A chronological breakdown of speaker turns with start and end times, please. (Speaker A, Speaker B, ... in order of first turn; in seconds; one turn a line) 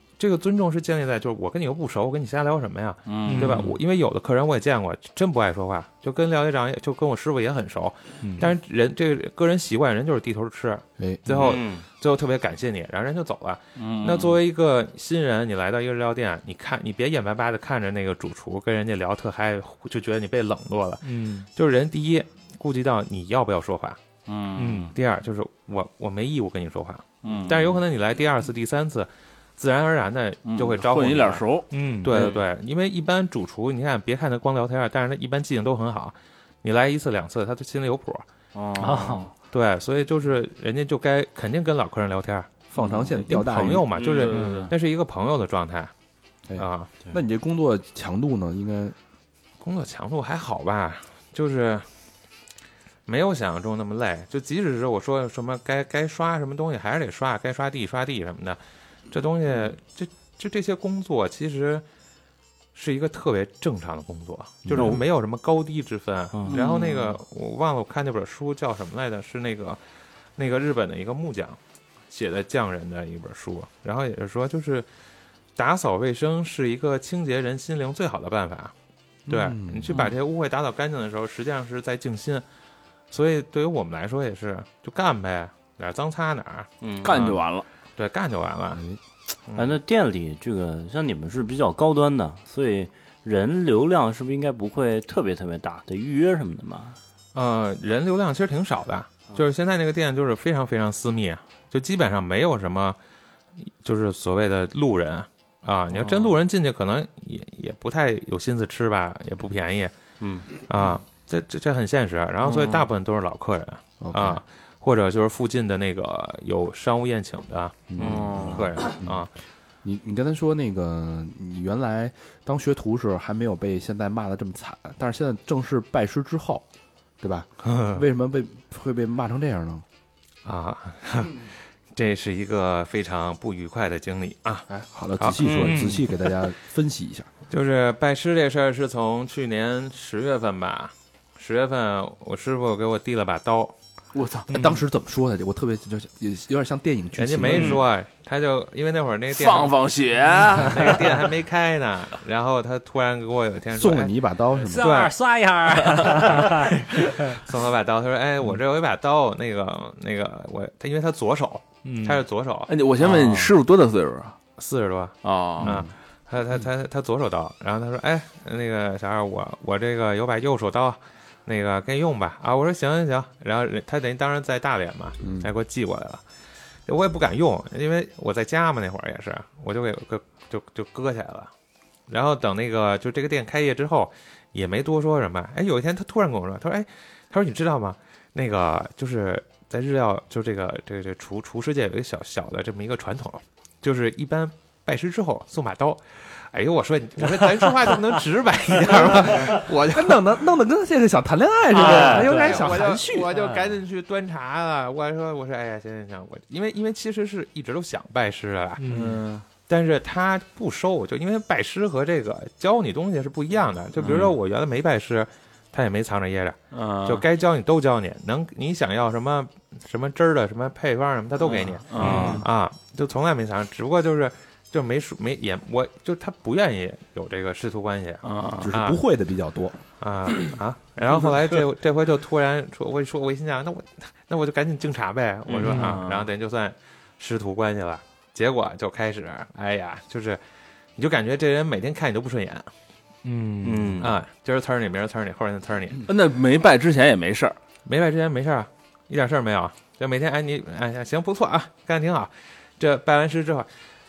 Speaker A: 0.2-21.0
Speaker B: 3.1-3.7
Speaker C: 3.2-3.7
Speaker C: 8.2-8.5
Speaker D: 11.0-11.6
Speaker E: 11.3-11.8
Speaker B: 13.8-14.4
Speaker C: 21.0-21.4
Speaker A: 21.5-24.0
Speaker B: 24.3-24.9
Speaker C: 24.6-24.9
Speaker A: 24.9-31.4
Speaker B: 27.2-27.8
Speaker B: 30.5-32.4
Speaker C: 31.7-32.2
Speaker A: 32.0-38.2
Speaker B: 38.5-39.3
Speaker C: 38.8-39.3
Speaker A: 39.5-42.6
Speaker D: 42.7-43.9
Speaker B: 42.8-43.1
Speaker A: 43.1-45.9
Speaker E: 43.9-44.5
Speaker B: 44.1-44.7
Speaker C: 44.4-44.6
Speaker D: 46.5-49.0
Speaker A: 46.5-46.9
Speaker A: 49.6-51.9
Speaker A: 53.1-58.6
Speaker A: 59.1-61.8
Speaker A: 62.7-69.8
Speaker D: 64.6-65.0
Speaker E: 64.7-65.0
Speaker E: 66.3-66.6
Speaker B: 66.5-67.2
Speaker A: 70.4-71.6
Speaker A: 72.1-74.9
Speaker A: 75.5-78.7
Speaker D: 79.3-80.0
Speaker A: 79.3-82.4
Speaker A: 83.1-87.4
Speaker E: 86.8-87.2
Speaker B: 87.0-87.6
Speaker A: 88.0-88.8
Speaker A: 89.5-89.8
Speaker E: 89.5-97.0
Speaker A: 97.3-103.0
Speaker A: 103.8-109.9
Speaker E: 106.0-106.3
Speaker E: 110.2-110.5
Speaker A: 110.5-119.3
Speaker B: 112.4-112.8
Speaker D: 114.0-114.4
Speaker D: 117.9-119.3
Speaker E: 118.0-118.3
Speaker B: 118.0-118.7
Speaker D: 119.8-126.6
Speaker D: 127.2-129.8
Speaker A: 127.6-128.0
Speaker A: 130.4-134.7
Speaker D: 134.7-137.3
Speaker A: 135.2-135.5
Speaker E: 135.4-135.9
Speaker C: 135.6-136.0
Speaker A: 137.5-143.7
Speaker B: 144.1-144.5
Speaker D: 144.5-147.8
Speaker C: 144.5-144.8
Speaker A: 147.2-149.8
Speaker B: 149.3-151.2
Speaker A: 150.5-154.1
Speaker D: 153.7-154.9
Speaker C: 154.6-157.4
Speaker A: 154.8-155.1
Speaker A: 155.9-162.7
Speaker C: 161.8-162.2
Speaker B: 162.7-164.4
Speaker A: 164.6-176.2
Speaker B: 165.2-165.8
Speaker D: 165.6-165.9
Speaker D: 175.2-175.5
Speaker A: 176.9-181.5
Speaker A: 182.1-200.3
Speaker D: 199.2-203.3
Speaker C: 201.7-203.7
Speaker A: 201.7-209.0
Speaker C: 208.8-209.2
Speaker B: 208.9-209.4
Speaker A: 209.7-229.0
Speaker B: 214.0-214.3
Speaker B: 216.7-217.2
Speaker B: 221.4-222.4
Speaker E: 222.0-222.4
Speaker C: 222.0-222.4
Speaker B: 228.2-228.7
Speaker D: 228.6-229.8
Speaker A: 230.0-240.4
Speaker B: 235.5-236.3
Speaker C: 235.6-235.9
Speaker A: 240.9-242.7
Speaker C: 243.2-244.1
Speaker E: 243.6-244.1
Speaker A: 244.0-246.0
Speaker B: 246.1-247.6
Speaker A: 247.8-253.7